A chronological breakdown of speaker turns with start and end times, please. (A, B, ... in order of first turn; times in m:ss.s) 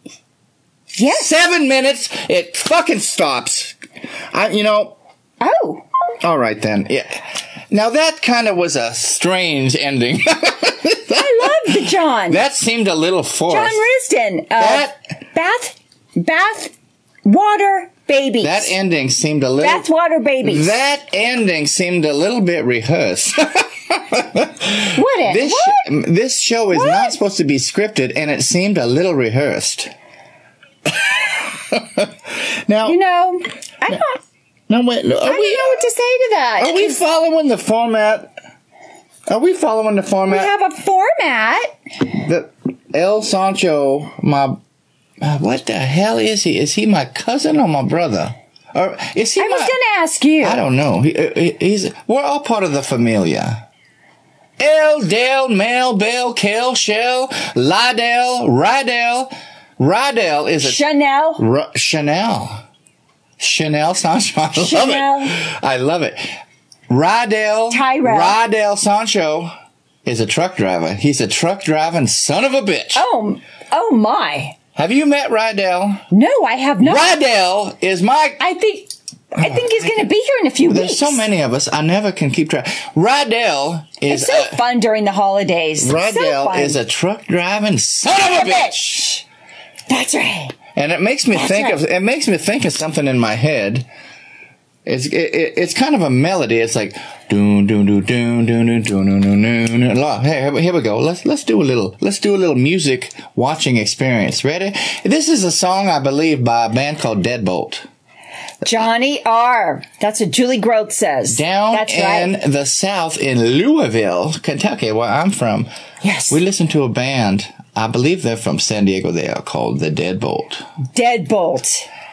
0:01.0-0:01.3 A
0:01.0-0:03.8 B
0:04.3-0:05.0 B
0:05.4-0:05.8 A
0:06.2-0:13.8 B
0:11.1-0:12.4 A
0:13.5-0:16.7 A
0:14.6-0:14.9 B
0:17.2-0:18.7 A
0:18.4-0:19.8 B
0:19.6-0:20.8 A
0:20.4-0:29.9 B
0:24.9-0:25.8 A
0:26.7-0:27.2 A
0:30.9-0:33.0 B
0:32.8-0:34.2 A
0:34.7-0:35.8 B
0:35.2-0:37.0 A
0:36.6-0:38.3 B
0:39.3-0:40.5 B
0:40.3-0:41.7 A
0:42.1-0:44.6 B
0:45.2-0:49.7 B
0:49.4-0:50.6 A
0:50.4-0:53.6 B
0:54.6-1:00.8 B
1:00.6-1:01.4 A
1:01.4-1:02.6 B
1:03.4-1:06.4 B
1:04.6-1:05.4 A
1:06.9-1:09.5 B
1:07.7-1:08.4 A
1:10.0-1:13.0 B
1:12.9-1:14.6 A
1:14.7-1:16.0 B
1:16.1-1:17.1 A
1:16.8-1:18.4 B
1:18.4-1:21.2 A
1:19.3-1:20.0 B
1:20.6-1:24.6 B
1:24.1-1:26.8 A
1:25.8-1:29.2 B
1:28.1-1:29.2 A
1:29.9-1:30.5 A
1:30.7-1:33.9 B
1:31.3-1:31.8 A
1:34.8-1:47.8 B
1:48.6-1:52.3 A
1:51.2-1:55.7 B
1:56.0-1:56.4 A
1:56.3-2:00.6 B
2:00.9-2:01.9 A